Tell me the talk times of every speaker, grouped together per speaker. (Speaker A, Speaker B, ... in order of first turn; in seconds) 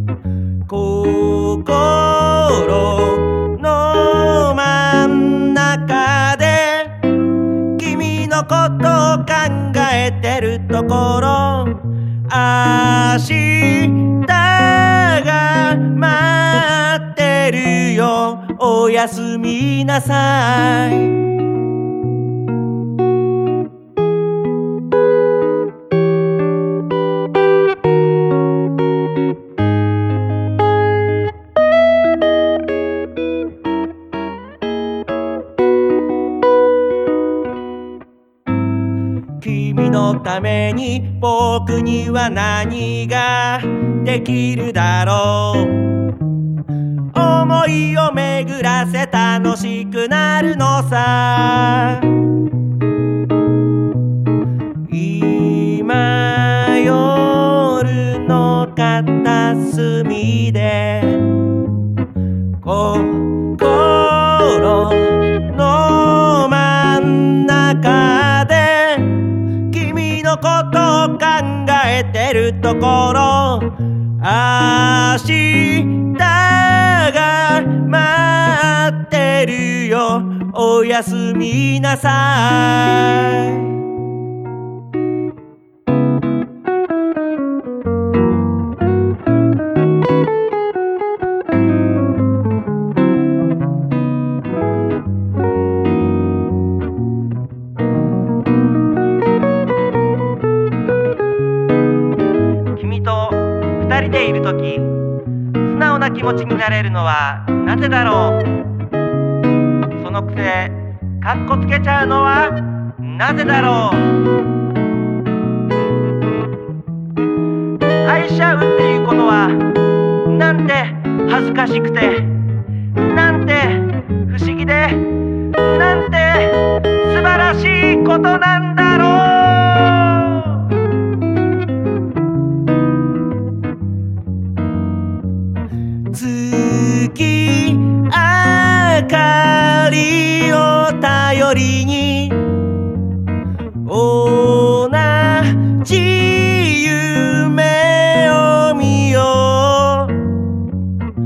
Speaker A: 0.7-7.0, 7.8-21.3, 39.4-45.9, 47.1-52.2, 54.9-61.3, 62.6-83.7, 102.8-105.0, 105.6-108.6, 110.0-114.3, 118.0-122.4, 123.0-130.7, 136.1-142.5, 143.8-150.3